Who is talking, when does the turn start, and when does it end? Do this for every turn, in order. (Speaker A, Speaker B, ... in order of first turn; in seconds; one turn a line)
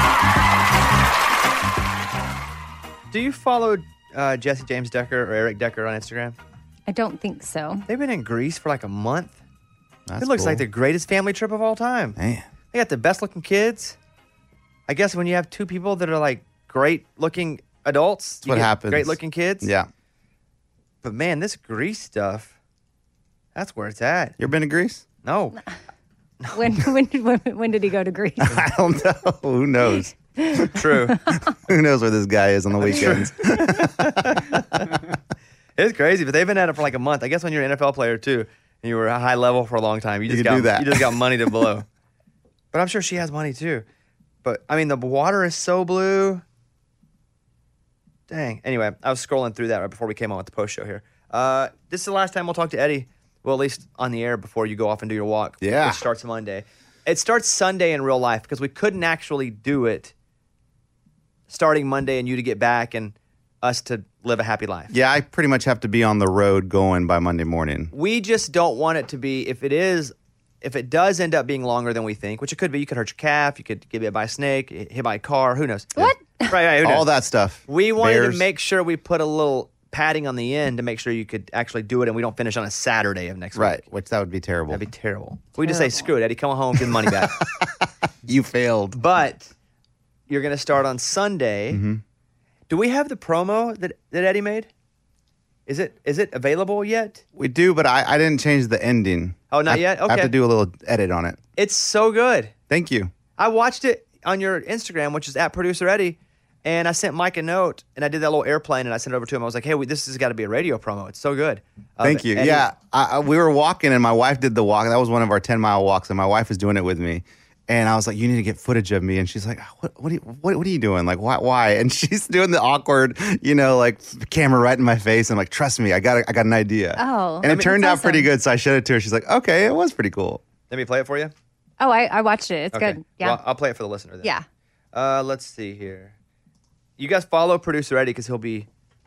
Speaker A: 3.1-6.4
Speaker B: 6.9-7.9
Speaker A: 7.9-9.4
Speaker C: 10.1-10.7
Speaker A: 10.2-12.2
Speaker C: 12.2-12.5
Speaker A: 12.7-14.0
Speaker A: 14.9-19.7
Speaker C: 18.4-19.9
Speaker A: 21.0-22.5
Speaker A: 23.6-24.4
Speaker C: 24.4-25.1
Speaker A: 25.2-25.6
Speaker B: 26.5-28.6
Speaker C: 28.5-30.7
Speaker B: 30.4-30.7
Speaker A: 30.7-31.2
Speaker C: 31.2-34.4
Speaker A: 32.8-35.0
Speaker A: 35.8-41.9
Speaker C: 40.3-41.6
Speaker A: 42.7-43.9
Speaker A: 44.4-46.4
Speaker A: 48.3-60.1
Speaker C: 55.6-56.0
Speaker A: 61.5-64.9
Speaker C: 64.9-67.9
Speaker A: 67.9-77.1
Speaker B: 76.0-76.5
Speaker C: 76.8-78.5
Speaker A: 77.7-83.8
Speaker C: 83.5-84.8
Speaker A: 84.7-87.4
Speaker C: 87.1-89.0
Speaker A: 88.9-89.5
Speaker A: 90.3-91.8
Speaker C: 91.7-92.0
Speaker A: 92.7-94.7
Speaker A: 95.7-97.2
Speaker C: 97.4-101.4
Speaker A: 99.5-100.3
Speaker A: 101.6-102.5
Speaker C: 102.7-103.1
Speaker A: 103.4-112.7
Speaker C: 112.0-130.4
Speaker B: 127.0-128.3
Speaker A: 130.7-131.3
Speaker B: 131.8-133.4
Speaker A: 132.7-134.3
Speaker A: 134.9-136.1
Speaker A: 137.0-138.7